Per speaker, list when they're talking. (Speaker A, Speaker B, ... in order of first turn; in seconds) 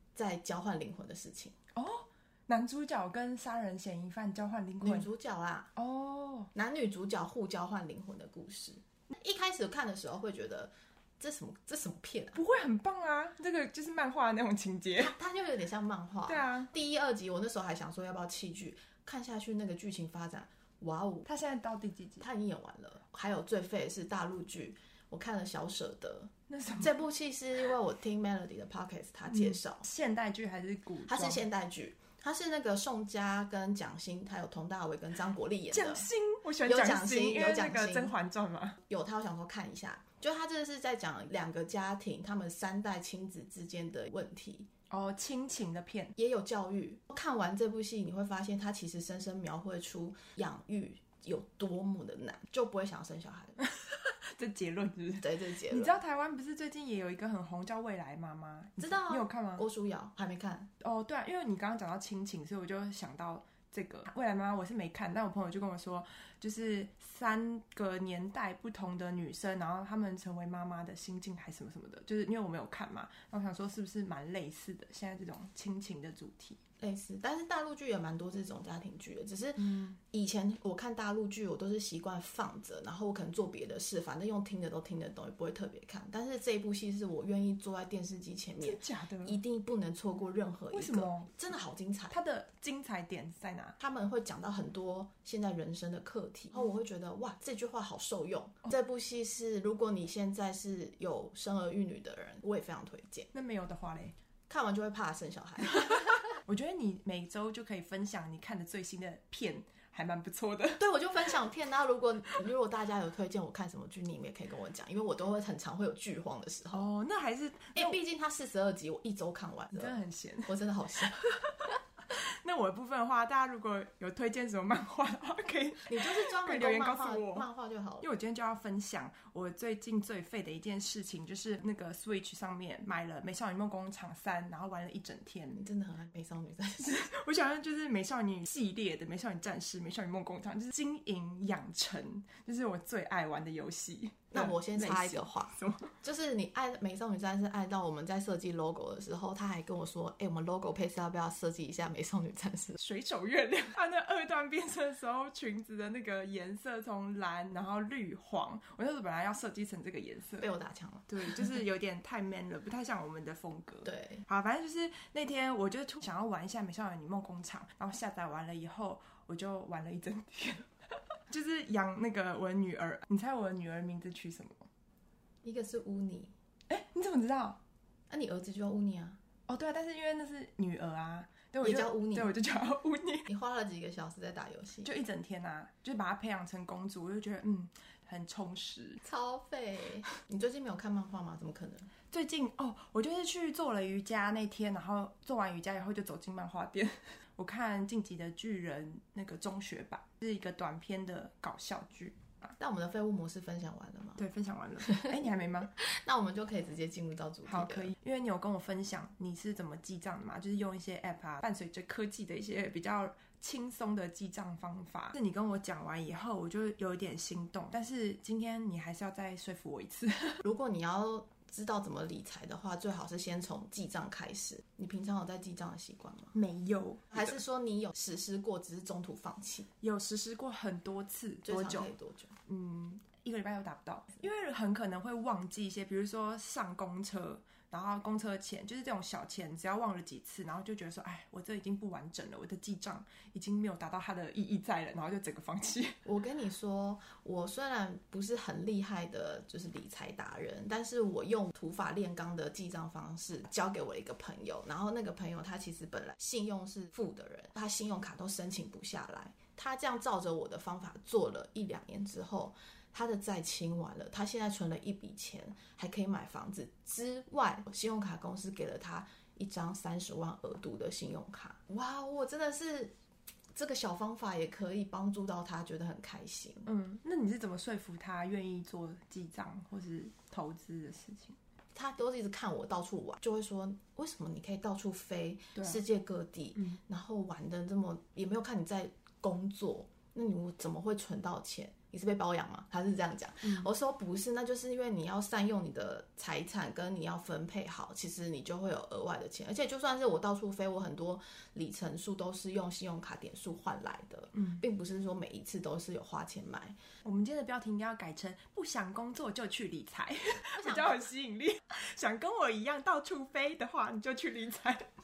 Speaker A: 0.1-1.6, 4.8-5.7, 6.5-12.4, 15.0-21.3, 22.2-29.9, 31.1-36.1, 36.6-38.1, 38.9-44.7, 46.2-53.6, 55.2-56.0, 58.8-60.7, 76.8-92.2, 93.8-103.3, 104.5-106.4, 110.8-116.9, 117.8-121.2, 125.9-128.1, 135.6-137.0, 144.3-152.8, 160.4-161.6, 163.8-164.2, 175.4-176.3, 178.1-179.2, 181.6-182.3, 183.3-184.9, 189.0-191.9, 202.6-204.2, 205.8-207.9, 220.4-226.3, 227.1-229.7, 231.4-232.3, 246.1-272.9, 273.6-276.7, 281.7-306.8, 310.6-311.0
Speaker B: 1.8-5.1, 5.8-6.5, 12.3-15.2, 16.3-16.7, 21.3-22.2, 26.5-27.0, 29.3-31.4, 35.7-38.8, 44.9-46.1, 53.6-59.7, 60.8-76.6, 79.6-80.0, 88.6-89.4, 90.7-91.3, 92.1-93.8, 103.3-104.2, 105.6-110.8, 116.7-118.0, 119.7-120.5, 121.2-127.5, 128.0-135.6, 136.8-145.9, 152.8-160.5, 161.1-170.7, 171.3-174.7, 176.7-177.6, 179.5-183.3, 184.8-189.0, 192.1-202.6, 204.2-205.7, 207.5-220.4, 226.3-227.4, 229.8-231.9, 232.5-246.0, 276.7-281.4, 285.6-285.8, 293.4-293.7, 304.4-304.6, 307.0-314.9